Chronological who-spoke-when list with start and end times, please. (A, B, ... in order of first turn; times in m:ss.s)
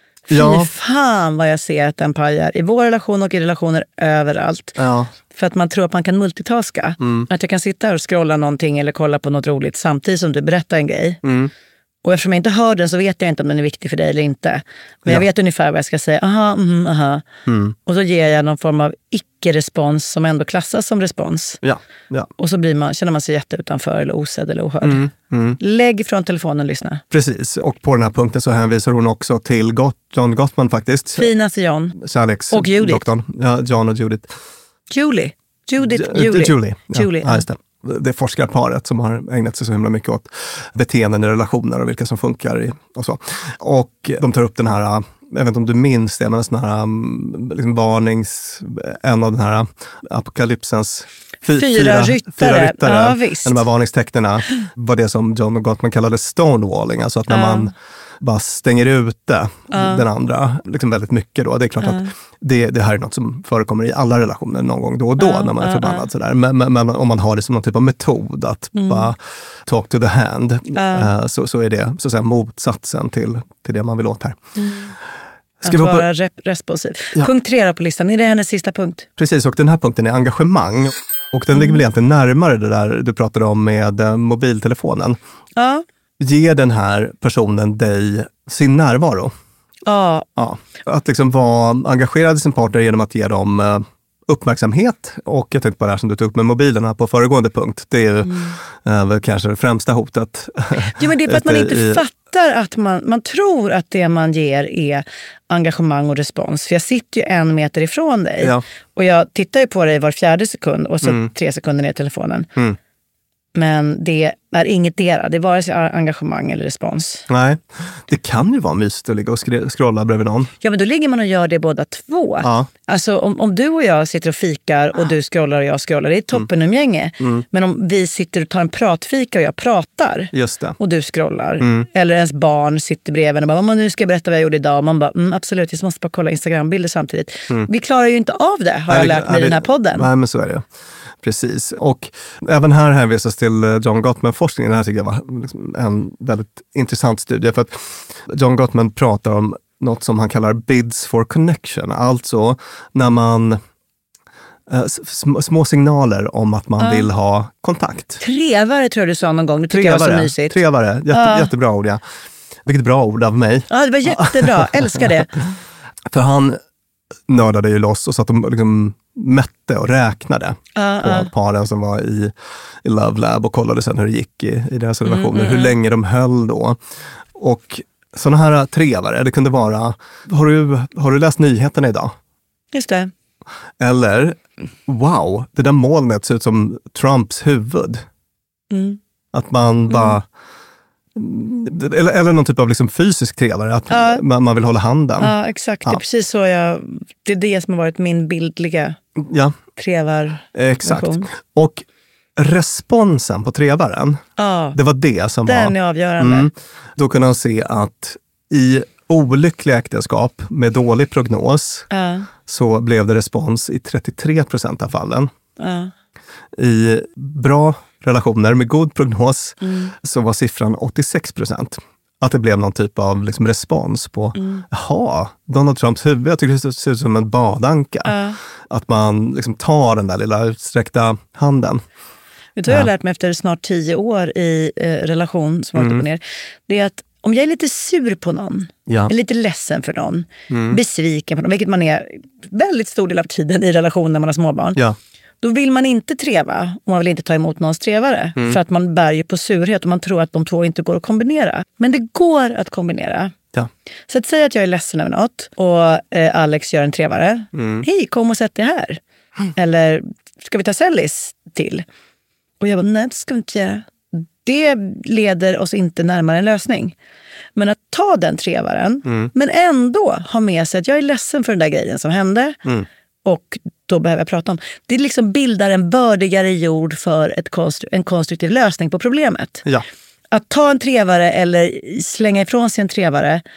0:00.3-0:00.7 A
0:00.3-0:04.8 B
0:04.8-0:05.1 A
0:05.3-0:11.2 B
0:07.0-0:07.3 A
0:11.2-0:11.5 A
0:12.0-0:17.2 B
0:17.5-0:17.8 A
0:17.9-0:21.6 B
0:21.6-0:22.3 A
0:22.4-0:25.0 B
0:24.8-0:25.6 A
0:25.6-0:27.0 B
0:27.1-0:31.3 A
0:31.2-0:32.0 B
0:32.0-0:34.3 A
0:32.5-0:33.0 B
0:34.9-0:37.4 B
0:35.9-1:14.4 A
0:51.6-0:53.6 B
0:57.3-0:57.7 B
0:59.7-1:00.0 B
1:01.8-1:02.1 B
1:05.2-1:06.1 B
1:08.8-1:09.1 B
1:10.8-1:11.1 B
1:14.6-1:14.9 B
1:15.6-1:16.1 A
1:15.6-1:19.1 B
1:19.2-1:25.2 A
1:21.5-1:21.8 B
1:25.6-1:25.8 B
1:26.2-1:29.3 A
1:29.9-1:30.3 B
1:30.4-1:42.0 A
1:38.2-1:38.6 B
1:41.0-1:52.5 B
1:51.0-1:51.3 A
1:53.6-1:57.3 B
1:57.3-2:00.5 A
2:00.6-2:20.1 B
2:02.4-2:02.7 A
2:07.2-2:07.4 A
2:10.3-2:10.8 A
2:11.6-2:11.9 A
2:18.9-2:20.6 A
2:21.2-2:33.6 A
2:34.7-2:38.2 A
2:36.8-2:37.1 B
2:38.2-2:40.6 B
2:39.7-2:42.0 A
2:41.1-2:41.5 B
2:42.7-2:45.3 A
2:43.7-2:45.3 B
2:46.1-2:46.6 A
2:47.3-2:56.8 A
2:50.8-2:51.3 B
2:55.1-2:55.8 B
2:57.4-3:02.1 A
3:02.7-3:03.1 B
3:03.8-3:08.0 A
3:08.7-3:09.0 B
3:09.3-3:10.2 A
3:09.9-3:10.2 B
3:11.1-3:16.0 A
3:13.9-3:14.2 B
3:15.2-3:19.0 B
3:19.2-3:19.6 A
3:19.8-3:21.3 B
3:20.5-3:21.8 A
3:22.4-3:24.2 A
3:24.4-3:24.8 B
3:24.7-3:31.9 A
3:25.5-3:26.5 B
3:31.9-3:32.3 B
3:32.5-3:35.3 A
3:35.6-3:35.9 B
3:36.6-3:48.2 A
3:39.6-3:39.9 B
3:44.4-3:44.6 B
3:48.0-3:48.4 B
3:48.7-3:51.8 A
3:52.6-4:04.8 B
3:55.8-3:56.0 A
4:00.5-4:00.8 A
4:05.4-4:13.3 B
4:14.1-4:19.0 B
4:17.5-4:17.8 A
4:19.6-4:21.8 B
4:22.6-4:27.0 B
4:27.6-4:32.6 B
4:29.0-4:29.3 A
4:33.2-4:39.6 B
4:40.3-4:43.4 B